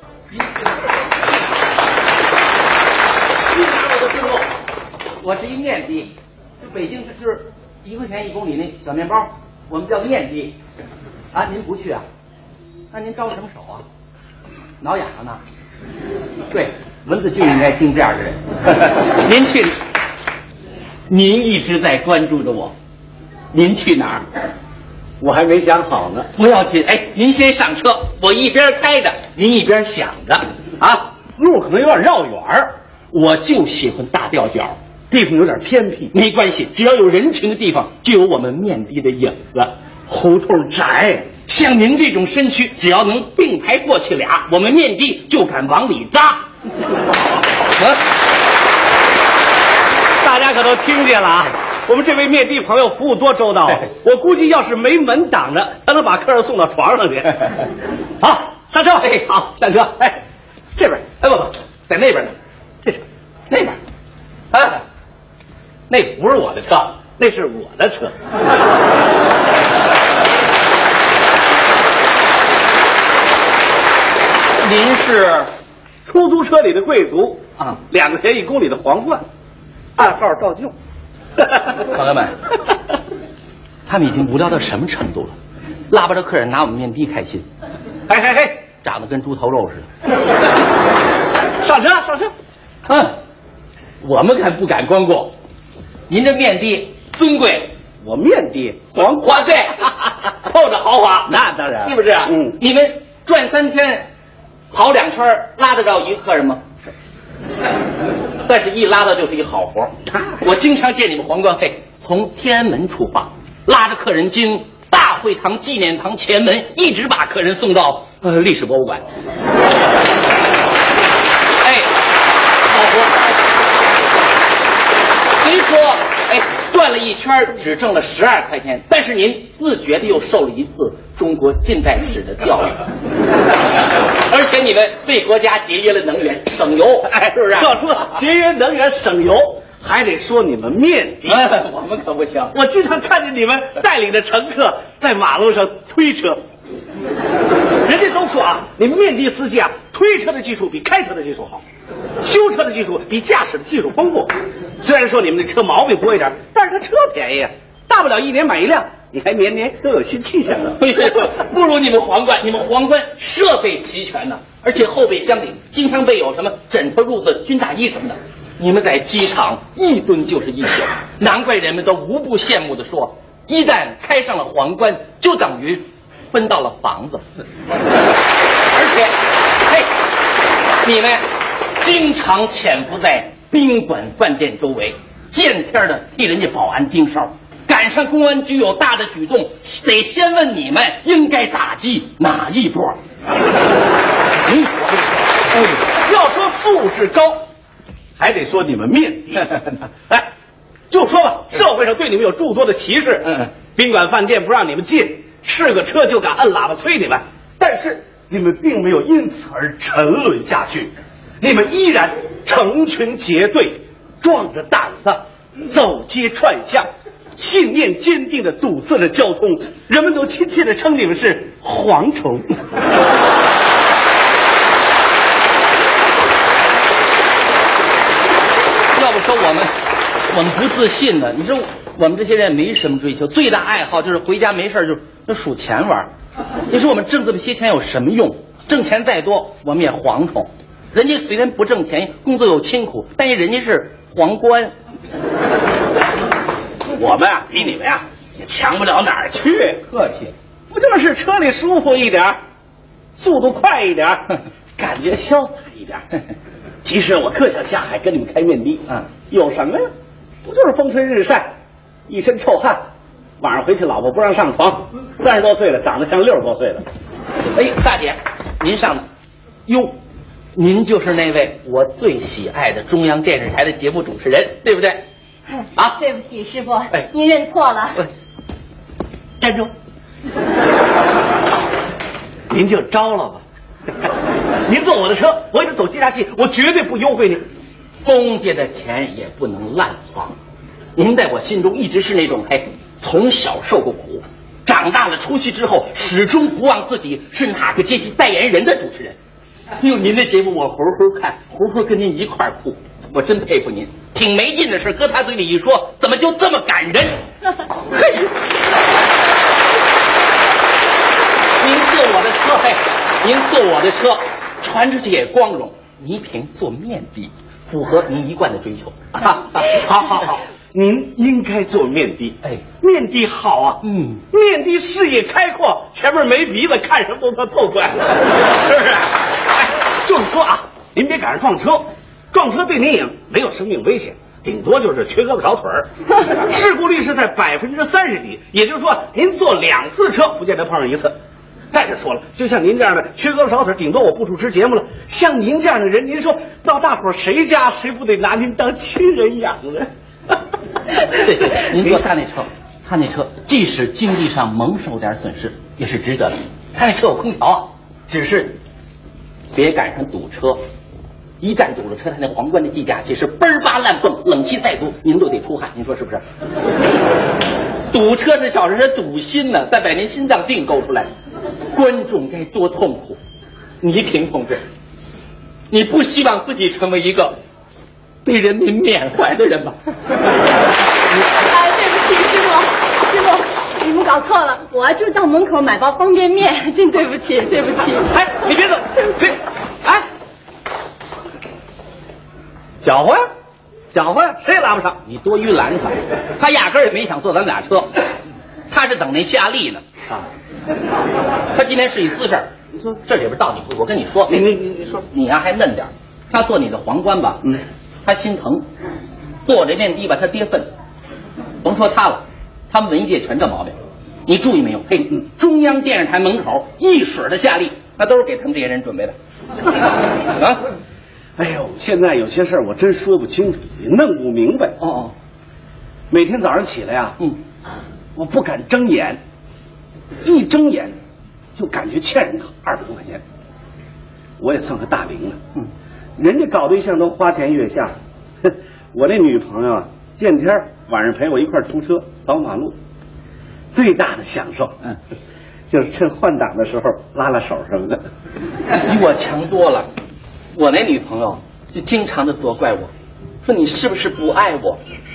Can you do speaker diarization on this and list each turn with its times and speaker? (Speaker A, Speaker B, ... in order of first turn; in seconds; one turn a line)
Speaker A: 0.3-0.7
Speaker A: 3.5-4.5
Speaker A: 5.2-10.6
Speaker A: 11.3-12.1
Speaker A: 12.9-13.8
Speaker A: 14.8-15.4
Speaker A: 16.5-19.8
Speaker A: 21.1-22.7
Speaker A: 23.5-24.2
Speaker B: 25.2-26.3
Speaker A: 26.4-30.4
Speaker B: 30.8-32.7
Speaker A: 33.1-34.8
Speaker B: 35.1-36.1
Speaker A: 36.1-39.7
Speaker B: 40.1-41.3
Speaker A: 41.5-46.5
Speaker A: 47.7-48.0
Speaker B: 50.2-57.5
Speaker B: 58.2-59.2
Speaker A: 59.0-60.2
Speaker A: 60.9-62.3
Speaker A: 63.5-63.8
Speaker A: 64.5-64.8
Speaker A: 65.9-67.0
Speaker B: 67.2-68.2
Speaker A: 74.6-75.5
Speaker B: 76.0-79.2
Speaker B: 80.0-80.8
Speaker A: 81.8-82.3
Speaker A: 83.9-85.3
Speaker A: 85.9-87.5
Speaker B: 88.1-88.6
Speaker A: 88.8-89.9
Speaker B: 91.6-92.3
Speaker A: 92.9-93.2
Speaker A: 94.0-95.3
Speaker A: 96.1-97.7
Speaker B: 98.0-99.7
Speaker A: 99.0-104.1
Speaker B: 101.3-102.6
Speaker A: 104.7-106.7
Speaker A: 108.5-119.0
Speaker A: 121.6-121.9
Speaker A: 122.7-123.3
Speaker A: 125.4-132.9
Speaker A: 134.2-138.2
Speaker B: 137.5-141.6
Speaker A: 141.3-142.6
Speaker B: 142.5-146.4
Speaker B: 147.8-151.6
Speaker B: 152.2-161.1
Speaker A: 160.8-177.2
Speaker A: 178.7-179.2
Speaker A: 180.8-181.2
Speaker A: 181.8-193.0
Speaker A: 194.5-194.9
Speaker B: 195.5-197.4
Speaker B: 198.2-200.3
Speaker B: 200.9-222.7
Speaker A: 228.9-229.7
Speaker A: 230.3-236.1
Speaker A: 236.7-244.7
Speaker B: 246.9-249.8
Speaker A: 249.9-250.3
Speaker B: 250.7-252.4
Speaker B: 253.2-256.1
Speaker B: 256.8-259.9
Speaker B: 260.4-261.5
Speaker B: 262.1-262.8
Speaker B: 263.4-266.9
Speaker A: 267.5-269.1
Speaker A: 269.7-270.0
Speaker A: 270.6-275.1
Speaker C: 276.0-278.0
Speaker B: 282.5-283.4
Speaker B: 284.7-287.4
Speaker A: 288.0-290.3
Speaker A: 291.0-299.2
Speaker A: 299.8-307.2
Speaker A: 307.9-308.3
Speaker A: 311.6-320.4
Speaker B: 319.9-329.0
Speaker A: 323.8-324.2
Speaker B: 329.9-341.1
Speaker B: 341.7-349.9
Speaker A: 351.1-358.6
Speaker A: 359.5-360.6
Speaker A: 361.4-366.2
Speaker A: 367.9-371.1
Speaker A: 371.7-373.2
Speaker A: 373.8-374.6
Speaker A: 375.7-377.4
Speaker A: 378.2-379.8
Speaker C: 381.3-388.1
Speaker B: 388.1-390.0
Speaker B: 392.8-393.2
Speaker B: 393.9-395.0
Speaker A: 395.1-398.0
Speaker A: 398.7-399.8
Speaker A: 401.6-408.7
Speaker B: 404.3-404.9
Speaker A: 409.5-410.7
Speaker A: 411.6-419.1
Speaker A: 420.4-420.6
Speaker B: 421.4-424.8
Speaker A: 424.8-425.1
Speaker B: 426.1-427.2
Speaker B: 428.2-429.2
Speaker B: 430.2-431.0
Speaker B: 431.6-433.2
Speaker B: 434.4-435.4
Speaker B: 436.2-442.8
Speaker B: 443.7-444.8
Speaker B: 445.7-448.0
Speaker A: 448.8-449.9
Speaker A: 450.6-452.9
Speaker A: 453.4-454.8